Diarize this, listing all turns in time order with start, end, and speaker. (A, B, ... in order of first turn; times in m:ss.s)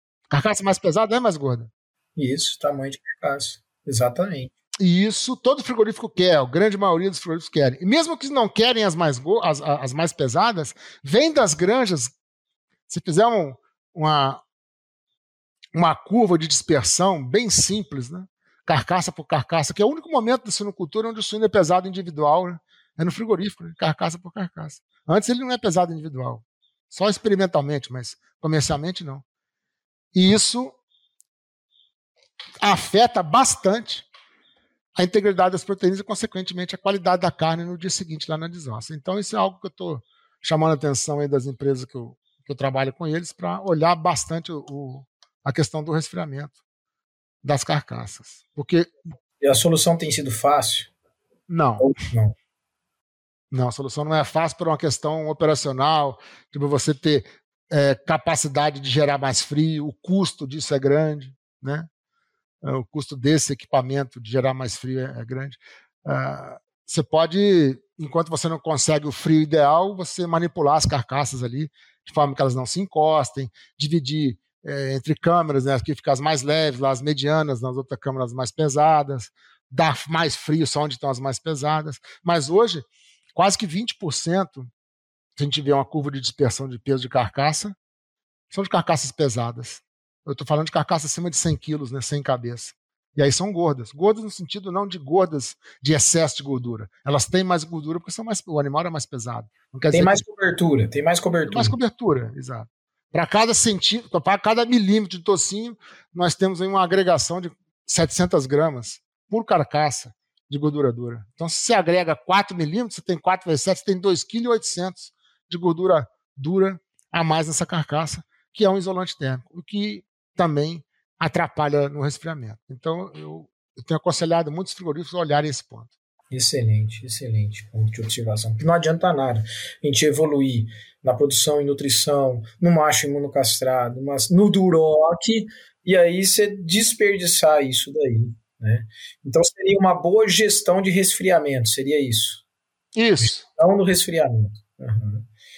0:00.3-0:01.7 A
0:02.2-0:04.5 B
0:04.8-0:12.1 A
0:12.9-0:14.4 A
0:15.7-0:29.2 A
0:30.1-0:30.8 A
0:32.6-0:34.1 A
0:35.0-0:46.6 A
0:47.4-0:48.9 A
0:49.4-0:50.9 B
0:51.5-0:51.9 A
0:51.8-0:52.4 B
0:53.5-1:01.9 A
1:02.6-1:24.7 A
1:25.4-1:27.8 A
1:28.5-1:40.2 A
1:39.9-1:41.8 B
1:41.5-2:05.9 A
2:06.3-2:22.4 B
2:23.0-2:23.4 A
2:23.2-2:25.3 B